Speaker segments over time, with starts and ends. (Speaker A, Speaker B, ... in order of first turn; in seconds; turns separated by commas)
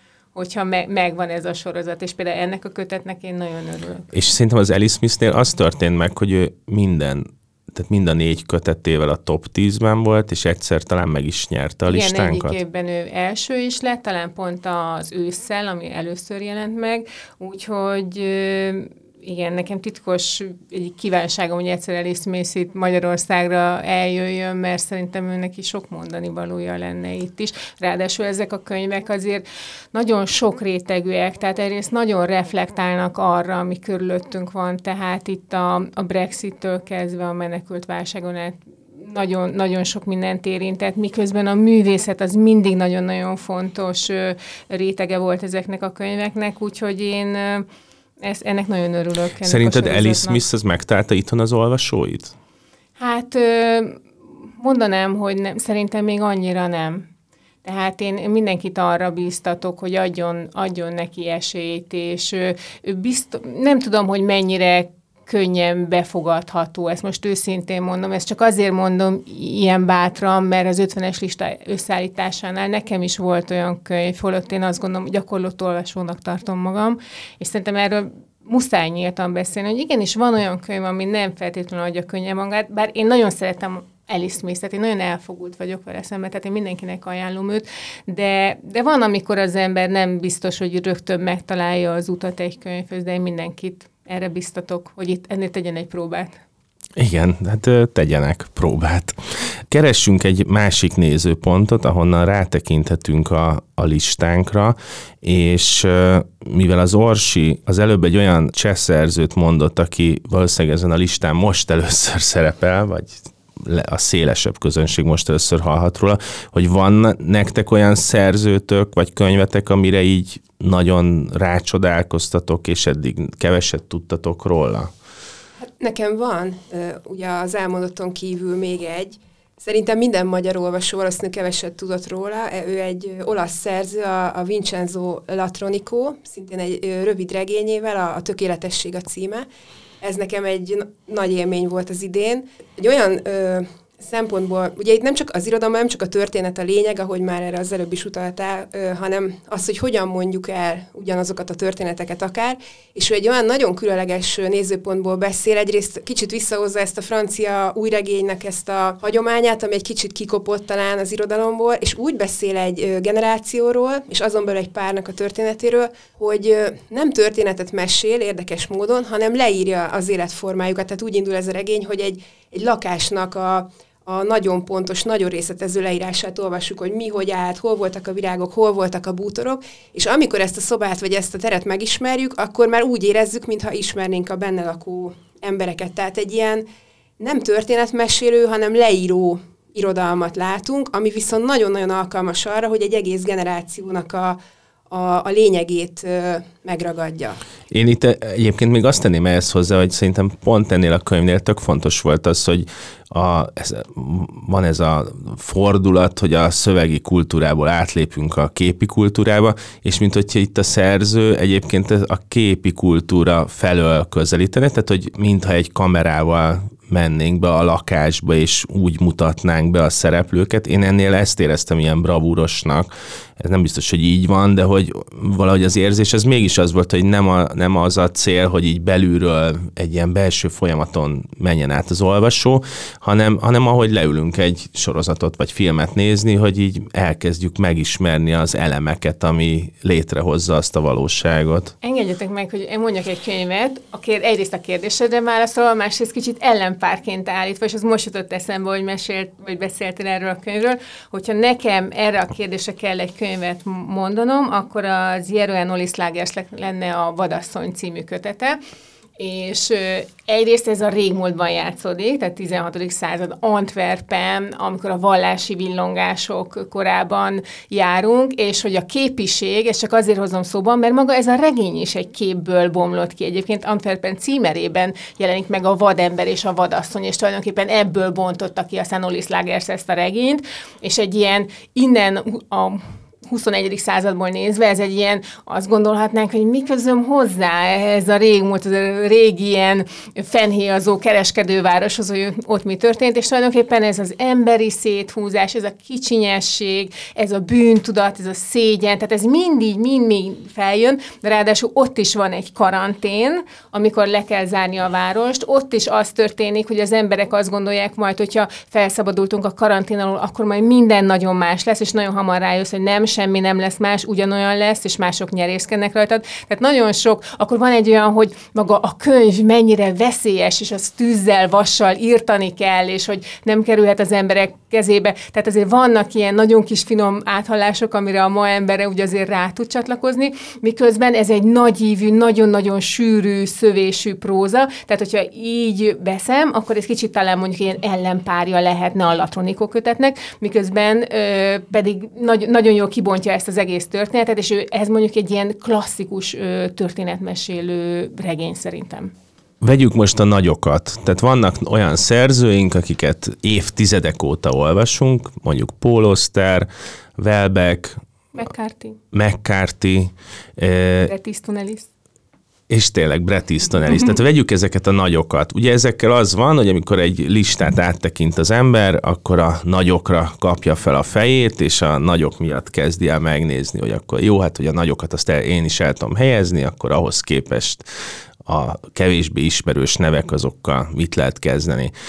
Speaker A: 0.3-4.1, Speaker B: 4.1-12.6, Speaker A: 11.9-47.6, Speaker A: 48.2-50.4, Speaker B: 49.4-52.3, Speaker A: 53.0-54.0, Speaker A: 54.6-57.1, Speaker A: 57.6-96.4, Speaker B: 97.0-124.9, Speaker C: 125.6-139.4, Speaker C: 140.0-186.7, Speaker C: 187.2-194.4, Speaker C: 194.9-197.4, Speaker B: 197.7-241.7, Speaker A: 241.8-258.6, Speaker A: 259.2-349.1, Speaker B: 349.6-358.0, Speaker A: 358.3-359.0, Speaker B: 359.1-361.1, Speaker A: 361.1-361.9, Speaker B: 362.7-377.8, Speaker B: 378.4-381.9